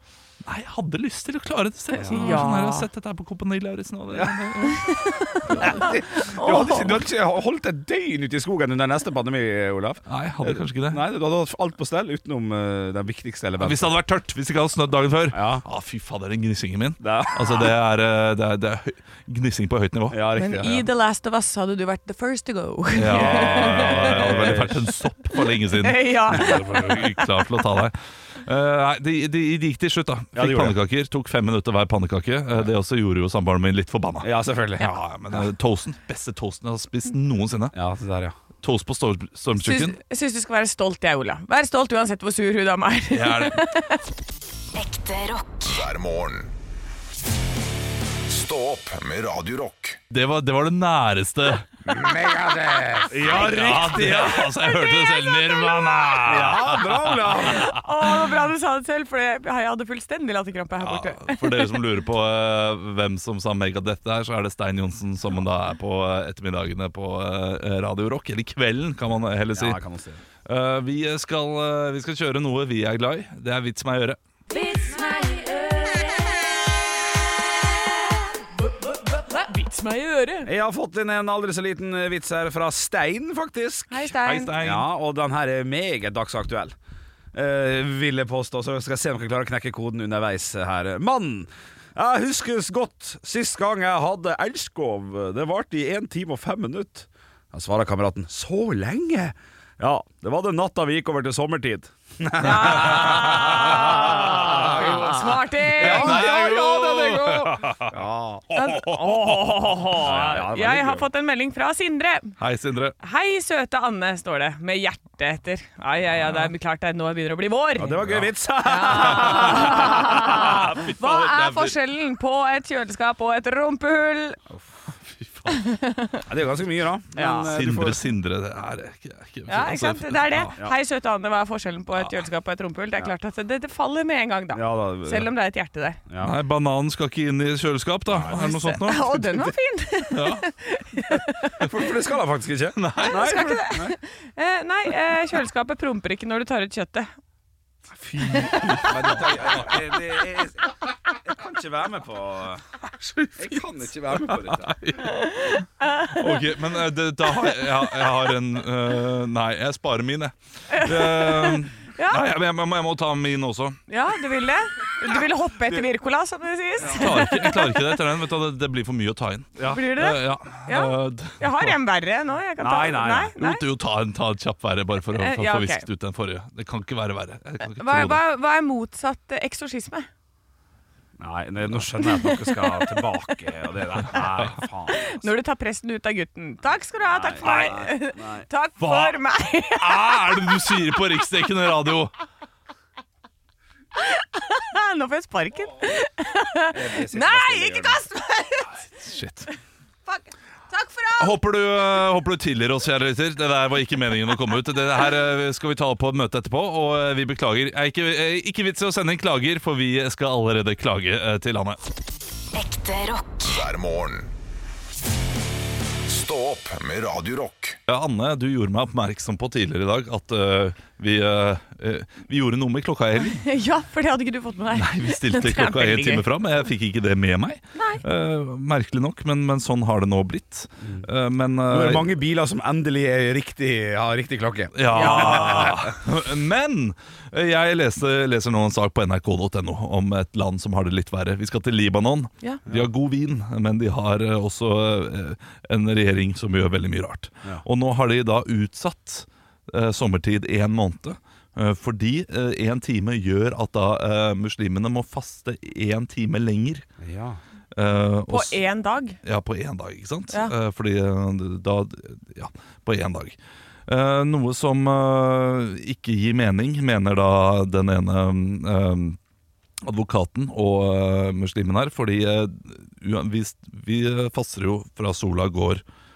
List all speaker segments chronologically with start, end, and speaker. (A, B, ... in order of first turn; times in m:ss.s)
0:00.4-0:04.9 A
0:01.9-0:02.4 B
0:02.1-0:02.9 C
0:04.6-0:07.0 C
0:05.5-0:05.8 A
0:05.5-0:13.9 B
0:10.1-0:11.0 A
0:13.6-0:20.2 A
0:15.3-0:15.6 B
0:17.0-0:17.7 B
0:20.1-0:20.9 B
0:20.4-0:24.4 C
0:22.9-0:37.8 A
0:23.1-0:24.9 B
0:25.4-0:27.3 C
0:30.3-0:30.8 B
0:34.2-0:35.5 B
0:37.7-0:38.4 B
0:38.6-0:40.0 A
0:39.6-0:44.0 C
0:43.1-0:43.6 A
0:44.7-0:45.8 D
0:45.6-0:46.5 E
0:48.3-0:50.0 E
0:50.1-0:51.7 A
0:51.9-0:54.5 B
0:53.2-0:58.3 A
0:54.4-0:56.2 C
0:56.2-0:57.7 B
0:57.4-1:01.8 C
1:00.8-1:09.8 A
1:09.5-1:10.2 B
1:10.4-1:14.2 A
1:14.5-1:16.4 C
1:18.3-1:20.5 C
1:20.4-1:26.8 B
1:23.9-1:24.6 C
1:24.2-1:24.9 A
1:27.3-1:45.0 B
1:42.4-1:47.6 C
1:42.9-1:43.7 A
1:44.5-1:47.8 A
1:45.8-1:46.4 B
1:47.6-1:51.1 B
1:48.5-1:52.3 C
1:52.4-1:53.0 A
1:53.0-1:58.0 C
1:57.8-2:00.6 B
1:58.0-1:58.3 A
1:58.6-2:04.4 C
1:59.2-2:01.8 A
2:05.1-2:05.6 A
2:05.5-2:06.2 C
2:06.3-2:08.0 B
2:07.1-2:07.5 C
2:07.5-2:10.5 A
2:09.5-2:16.0 C
2:14.5-2:15.3 B
2:16.1-2:16.4 B
2:16.2-2:19.5 A
2:18.1-2:18.5 B
2:18.3-2:21.7 C
2:20.1-2:20.4 A
2:21.6-2:24.0 B
2:22.8-2:23.5 A
2:23.0-2:27.1 C
2:27.9-2:32.6 B
2:28.2-2:28.8 C
2:28.3-2:29.8 A
2:32.9-2:35.2 A
2:33.4-2:34.8 B
2:35.0-2:36.4 C
2:36.1-2:43.8 A
2:40.7-2:42.2 C
2:43.9-2:48.0 C
2:46.9-2:51.8 A
2:49.6-2:49.8 B
2:49.7-2:53.6 C
2:52.6-2:53.3 B
2:53.4-2:58.2 A
2:55.2-2:55.8 C
2:57.6-3:00.1 C
3:01.2-3:05.3 B
3:02.0-3:03.0 C
3:04.9-3:10.4 C
3:07.1-3:08.5 B
3:08.8-3:09.1 A
3:09.8-3:12.1 A
3:13.9-3:18.8 C
3:16.7-3:18.0 B
3:18.7-3:19.5 A
3:20.1-3:21.4 C
3:21.2-3:31.8 A
3:32.5-3:33.6 D
3:33.4-3:34.3 E
3:36.1-3:37.8 E
3:37.9-3:43.4 A
3:43.2-3:46.2 C
3:44.7-3:52.1 A
3:47.8-3:48.0 C
3:50.8-3:51.1 B
3:51.7-3:56.0 B
3:54.7-4:16.8 A
3:54.9-3:55.7 C
4:17.0-4:17.4 B
4:17.7-4:18.6 A
4:18.3-4:19.2 C
4:19.2-4:29.2 A
4:29.8-4:35.8 A